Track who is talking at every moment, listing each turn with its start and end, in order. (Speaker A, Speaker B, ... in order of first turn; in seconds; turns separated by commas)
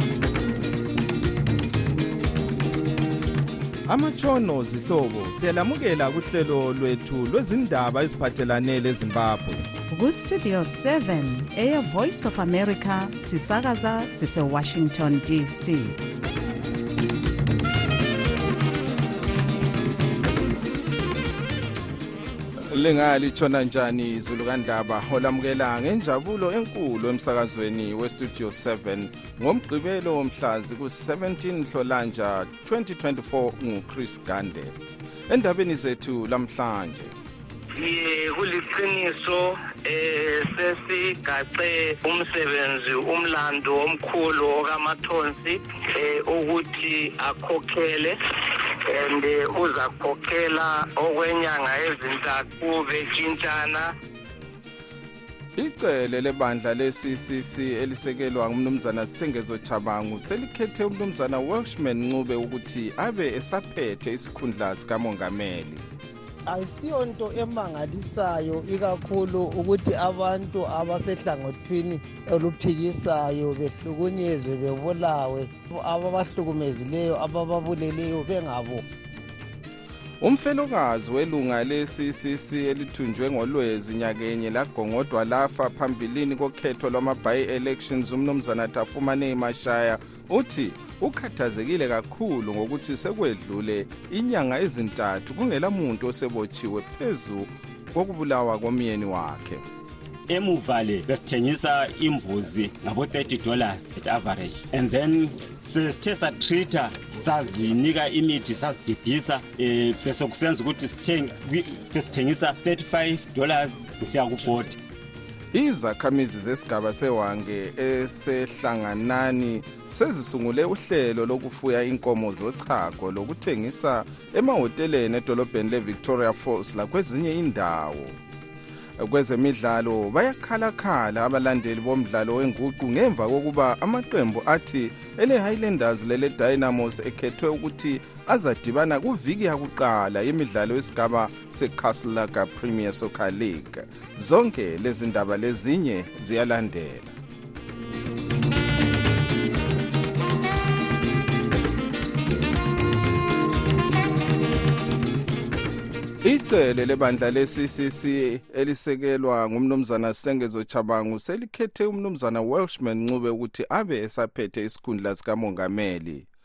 Speaker A: 3.9-9.7, Speaker B: 9.9-16.0, Speaker A: 22.7-34.8, Speaker A: 35.3-37.1, Speaker C: 37.8-48.2, Speaker C: 48.9-53.9, Speaker A: 55.5-65.8, Speaker D: 66.5-78.8, Speaker A: 80.2-99.6, Speaker E: 100.3-114.8, Speaker A: 115.5-128.2, Speaker A: 129.0-147.1, Speaker A: 156.2-166.3